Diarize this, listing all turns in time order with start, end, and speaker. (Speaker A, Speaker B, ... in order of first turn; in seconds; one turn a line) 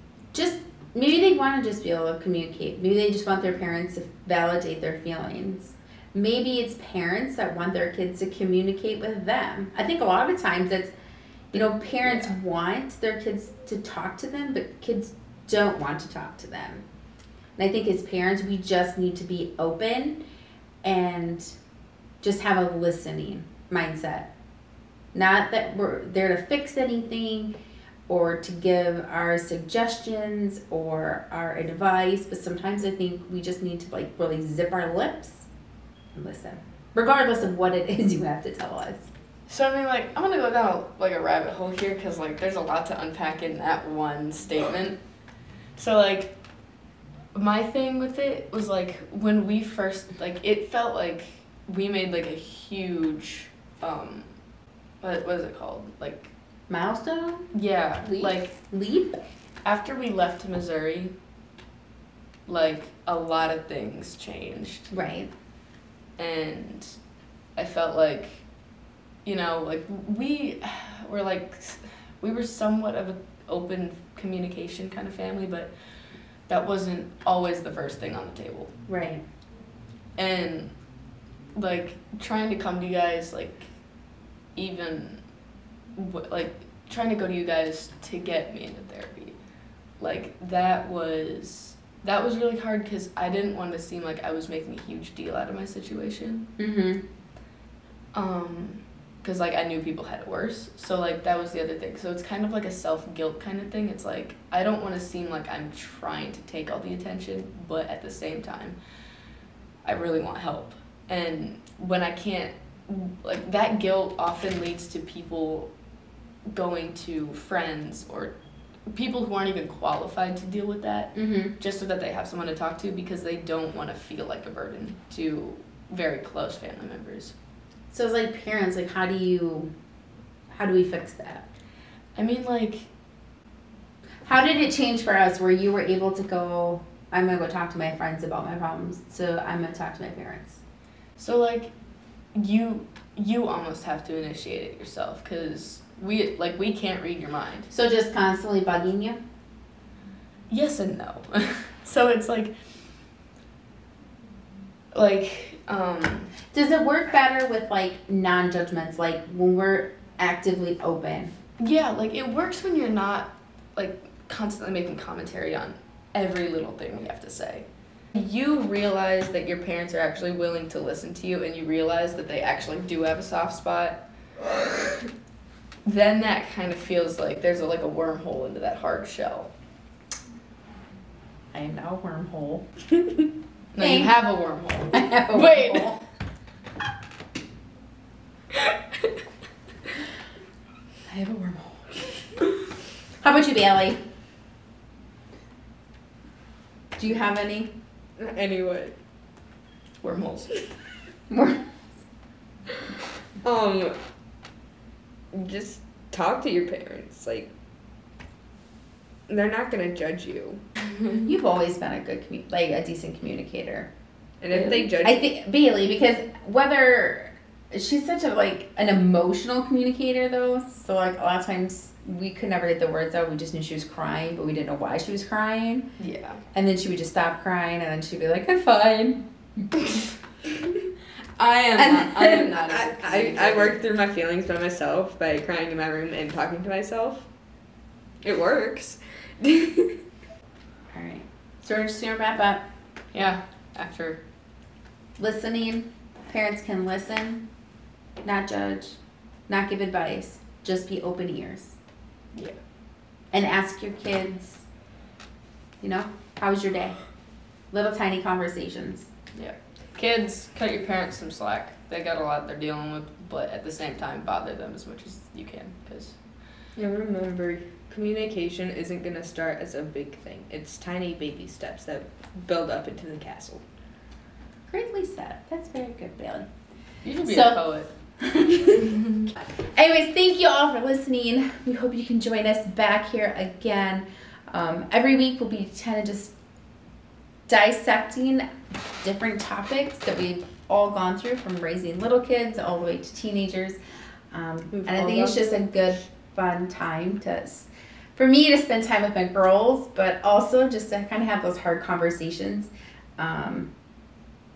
Speaker A: 0.3-10.9
Speaker A: 11.5-16.8
Speaker A: 17.6-20.2
Speaker A: 20.8-21.6
Speaker A: 22.2-24.3
Speaker A: 25.1-27.5
Speaker A: 28.1-35.5
Speaker A: 36.1-39.1
Speaker B: 39.5-45.0
Speaker B: 45.8-46.3
Speaker B: 47.3-54.3
Speaker B: 55.0-56.3
Speaker A: 56.7-59.2
Speaker B: 57.5-58.5
Speaker B: 59.6-61.1
Speaker B: 62.5-64.9
Speaker A: 64.9-65.3
Speaker B: 66.2-67.0
Speaker B: 67.6-68.4
Speaker B: 69.2-75.7
Speaker B: 76.5-78.7
Speaker A: 78.9-79.2
Speaker B: 80.2-80.7
Speaker B: 81.5-83.7
Speaker B: 84.5-85.2
Speaker B: 86.0-89.3
Speaker B: 90.0-96.5
Speaker A: 96.6-97.0
Speaker B: 98.1-108.8
Speaker B: 109.8-115.7
Speaker B: 116.5-118.3
Speaker B: 118.9-127.3
Speaker A: 121.1-121.5
Speaker A: 127.9-129.7
Speaker A: 130.5-131.5
Speaker B: 132.1-132.9
Speaker A: 134.2-140.6
Speaker B: 141.2-141.7
Speaker B: 142.3-147.7
Speaker A: 147.7-149.2
Speaker B: 150.5-152.5
Speaker B: 154.9-156.3
Speaker A: 156.5-161.3
Speaker B: 161.6-174.0
Speaker B: 175.8-179.5
Speaker A: 181.5-182.7
Speaker B: 183.7-186.0
Speaker A: 183.8-184.1
Speaker A: 184.9-185.9
Speaker A: 191.1-192.3
Speaker A: 193.2-194.0
Speaker A: 197.0-197.7
Speaker C: 198.2-198.9
Speaker B: 200.0-200.6
Speaker A: 201.3-201.7
Speaker C: 203.4-204.0
Speaker C: 205.3-207.5
Speaker C: 209.3-210.6
Speaker A: 211.2-213.9
Speaker C: 214.4-215.3
Speaker B: 214.5-214.8
Speaker A: 215.0-225.9
Speaker B: 226.0-226.4
Speaker A: 226.5-229.7
Speaker B: 231.4-233.7
Speaker A: 231.8-232.5
Speaker C: 232.2-237.3
Speaker C: 238.2-240.0
Speaker A: 240.9-242.6
Speaker B: 243.1-244.2
Speaker A: 245.2-247.5
Speaker A: 248.2-251.8
Speaker A: 253.3-254.7
Speaker A: 255.8-257.0
Speaker A: 257.7-259.1
Speaker B: 259.4-266.2
Speaker C: 266.8-273.6
Speaker A: 274.7-276.5
Speaker B: 277.0-277.9
Speaker A: 277.2-277.6
Speaker A: 278.2-278.9
Speaker B: 278.9-279.2
Speaker A: 279.6-286.4
Speaker A: 287.5-293.8
Speaker A: 294.3-303.7
Speaker C: 294.7-295.6